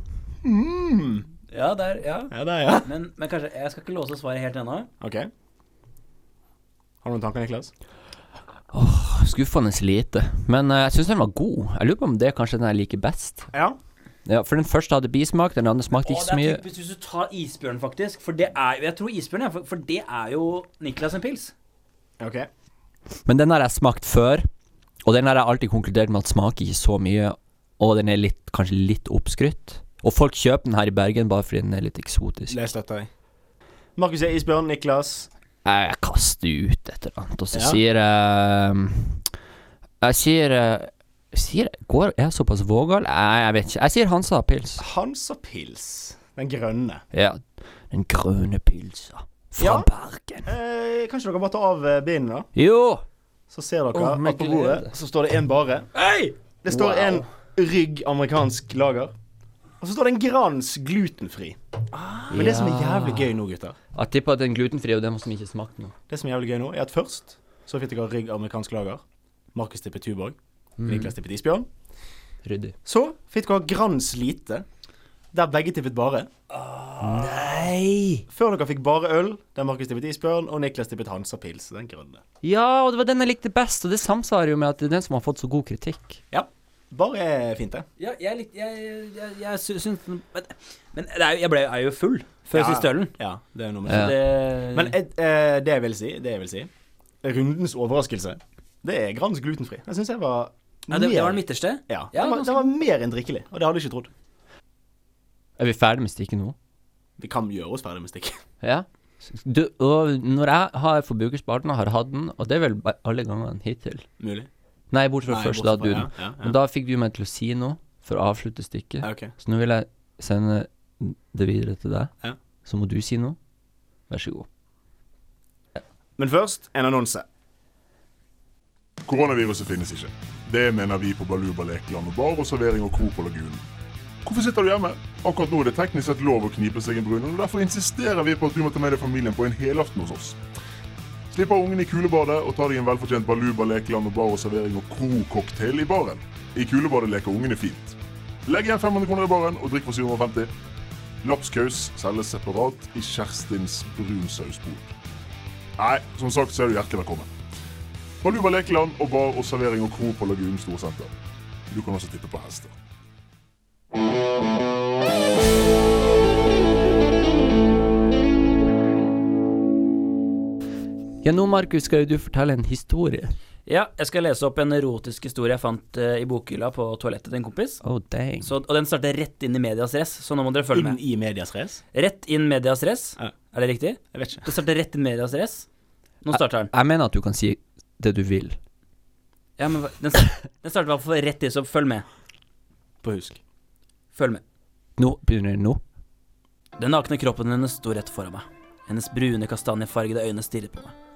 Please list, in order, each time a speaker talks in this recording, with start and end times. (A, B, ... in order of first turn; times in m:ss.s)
0:00.4-0:01.3 A
0:01.5-0:04.9 B
0:02.3-0:02.9 A
0:05.0-0:05.3 A
0:07.0-0:07.7 A
0:08.7-0:13.5 C
0:14.2-0:16.6 C
0:16.0-0:21.5 B
0:22.2-0:22.5 A
0:23.2-0:24.5 C
0:25.0-0:32.6 C
0:32.5-0:33.1 A
0:34.0-0:35.3 A
0:35.6-0:39.3 C
0:37.5-0:37.8 A
0:40.0-0:44.8 C
0:44.8-0:47.0 A
0:47.1-0:50.5 C
0:49.6-0:49.9 A
0:50.4-0:52.5 A
0:52.5-0:53.0 C
0:53.5-0:55.9 A
0:53.9-0:54.9 C
0:55.9-0:56.4 B
0:56.6-0:59.1 A
0:56.7-0:57.2 C
0:59.8-1:01.6 A
1:01.9-1:02.6 B
1:02.3-1:03.3 C
1:02.3-1:03.8 A
1:03.9-1:05.9 C
1:06.1-1:09.0 A
1:09.5-1:11.7 A
1:10.8-1:11.1 C
1:12.4-1:12.7 C
1:12.8-1:14.6 A
1:15.3-1:16.3 A
1:16.5-1:17.7 B
1:17.0-1:18.2 C
1:18.3-1:22.2 A
1:22.4-1:26.2 C
1:26.3-1:27.8 A
1:28.0-1:33.1 B
1:32.5-1:36.7 A
1:33.9-1:34.2 C
1:33.9-1:34.9 B
1:37.2-1:44.1 A
1:40.9-1:42.7 B
1:45.6-1:46.6 C
1:47.2-1:48.4 A
1:48.6-1:54.1 C
1:54.2-1:54.5 A
1:54.9-2:02.1 C
1:55.3-1:56.5 A
1:59.0-1:59.3 A
2:02.6-2:03.4 C
2:04.1-2:04.5 C
2:06.2-2:07.2 A
2:09.0-2:13.6 D
2:14.2-2:20.4 D
2:21.3-2:30.5 D
2:31.2-2:34.9 D
2:35.8-2:37.3 D
2:38.2-2:41.1 D
2:41.7-2:42.7 D
2:51.2-2:53.3 C
2:53.6-2:57.8 B
2:57.8-2:58.5 C
2:58.4-3:01.0 B
3:00.7-3:01.8 A
3:01.9-3:05.6 B
3:04.1-3:04.4 A
3:06.2-3:06.7 B
3:06.3-3:08.6 C
3:09.6-3:12.0 B
3:13.0-3:13.4 A
3:14.1-3:14.4 B
3:15.0-3:15.8 C
3:16.8-3:20.9 B